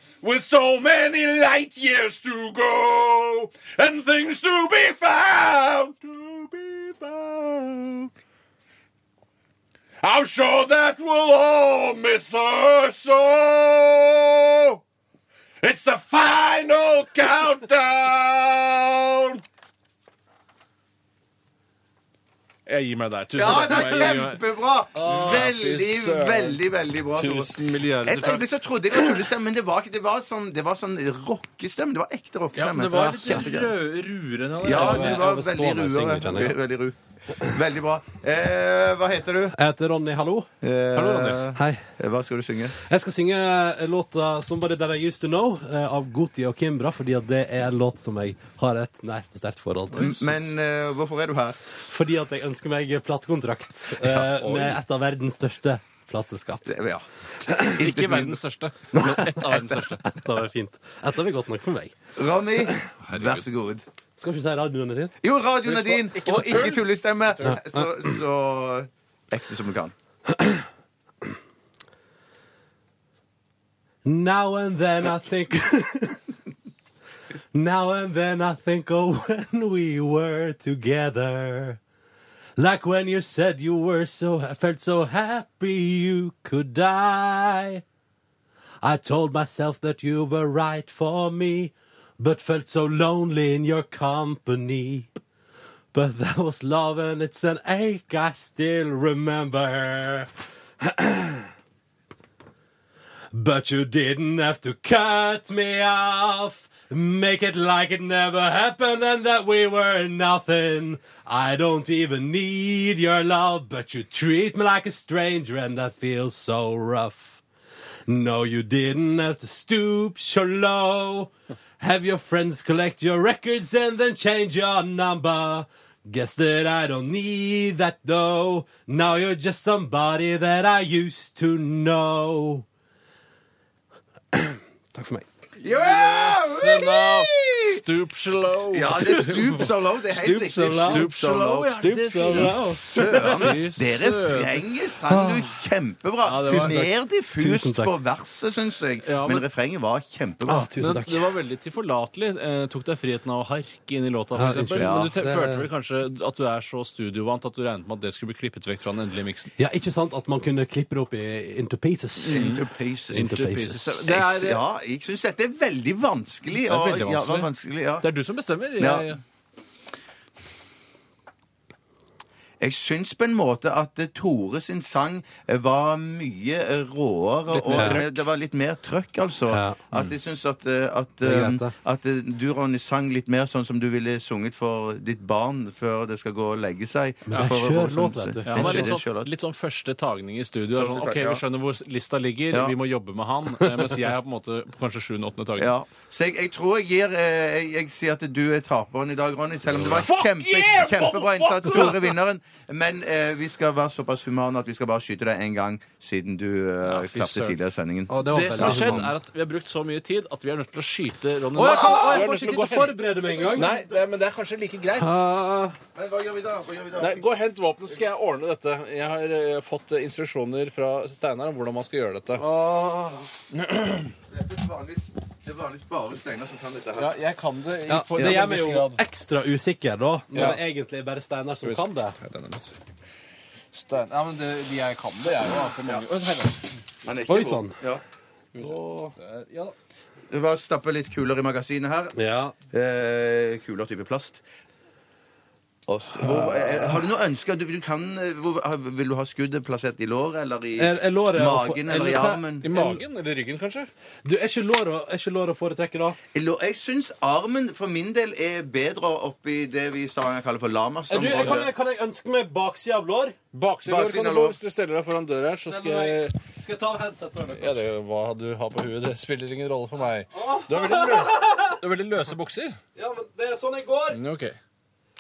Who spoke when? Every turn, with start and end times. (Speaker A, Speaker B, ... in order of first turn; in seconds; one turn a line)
Speaker A: 0.2-8.1
Speaker A: 10.0-14.8
Speaker A: 15.6-19.4
Speaker A: 22.7-24.4
Speaker B: 23.4-33.8
Speaker C: 25.0-25.4
Speaker A: 25.0-26.6
Speaker A: 27.1-28.4
Speaker A: 32.5-35.3
Speaker B: 34.6-39.6
Speaker C: 34.7-36.6
Speaker C: 39.5-40.5
Speaker B: 40.6-42.8
Speaker A: 40.9-41.4
Speaker C: 41.5-41.9
Speaker C: 42.8-50.5
Speaker B: 49.9-51.6
Speaker C: 51.8-56.7
Speaker B: 54.0-54.5
Speaker A: 54.4-54.8
Speaker B: 56.7-57.0
Speaker C: 57.4-57.8
Speaker B: 57.6-58.4
Speaker A: 57.7-60.1
Speaker C: 58.9-59.5
Speaker B: 59.5-59.8
Speaker C: 60.0-62.0
Speaker B: 62.2-63.9
Speaker A: 63.0-63.5
Speaker C: 64.2-65.1
Speaker B: 65.2-69.9
Speaker A: 65.6-67.6
Speaker C: 70.3-70.7
Speaker C: 74.0-76.2
Speaker C: 77.5-81.8
Speaker C: 82.6-87.8
Speaker C: 88.8-95.1
Speaker C: 95.9-100.3
Speaker C: 100.8-101.5
Speaker C: 103.3-117.4
Speaker C: 118.1-132.7
Speaker C: 134.3-135.3
Speaker B: 135.6-137.8
Speaker A: 135.7-144.7
Speaker B: 138.7-150.7
Speaker C: 138.9-139.7
Speaker C: 140.2-141.1
Speaker C: 141.7-143.5
Speaker C: 145.1-145.5
Speaker A: 146.2-146.9
Speaker C: 146.4-148.0
Speaker A: 149.0-149.5
Speaker C: 150.5-151.3
Speaker A: 150.8-159.5
Speaker C: 154.3-155.7
Speaker B: 154.8-155.1
Speaker C: 159.6-162.6
Speaker A: 162.2-164.6
Speaker B: 162.3-163.3
Speaker C: 163.1-164.1
Speaker B: 164.0-168.1
Speaker A: 166.6-169.2
Speaker B: 168.8-169.1
Speaker B: 172.6-189.3
Speaker A: 177.5-178.2
Speaker C: 177.7-178.0
Speaker C: 179.5-179.8
Speaker C: 181.2-181.7
Speaker C: 187.3-189.0
Speaker A: 188.5-195.7
Speaker B: 190.8-191.4
Speaker B: 195.6-209.1
Speaker A: 199.8-202.1
Speaker A: 206.8-207.6
Speaker C: 208.1-209.1
Speaker A: 208.2-213.0
Speaker C: 211.6-213.7
Speaker B: 213.3-214.0
Speaker A: 213.5-215.2
Speaker C: 215.0-215.8
Speaker B: 215.9-217.2
Speaker A: 217.0-222.4
Speaker C: 222.4-223.3
Speaker A: 223.5-224.1
Speaker B: 224.3-227.2
Speaker A: 227.0-229.0
Speaker C: 227.9-232.2
Speaker B: 228.2-228.5
Speaker A: 230.3-230.6
Speaker A: 231.6-232.7
Speaker A: 233.7-236.8
Speaker B: 237.0-238.0
Speaker C: 237.3-237.8
Speaker A: 238.5-239.8
Speaker C: 238.6-239.1
Speaker B: 240.3-242.2
Speaker C: 242.2-242.6
Speaker B: 242.7-244.4
Speaker B: 245.9-252.7
Speaker C: 246.2-246.9
Speaker C: 250.8-253.0
Speaker A: 252.6-253.9
Speaker C: 254.2-256.2
Speaker B: 256.3-261.7
Speaker C: 261.1-263.4
Speaker A: 261.2-261.7
Speaker A: 263.5-266.4
Speaker B: 263.9-264.6
Speaker C: 265.7-267.8
Speaker A: 267.6-272.8
Speaker C: 270.4-271.8
Speaker C: 273.0-274.2
Speaker A: 274.1-274.6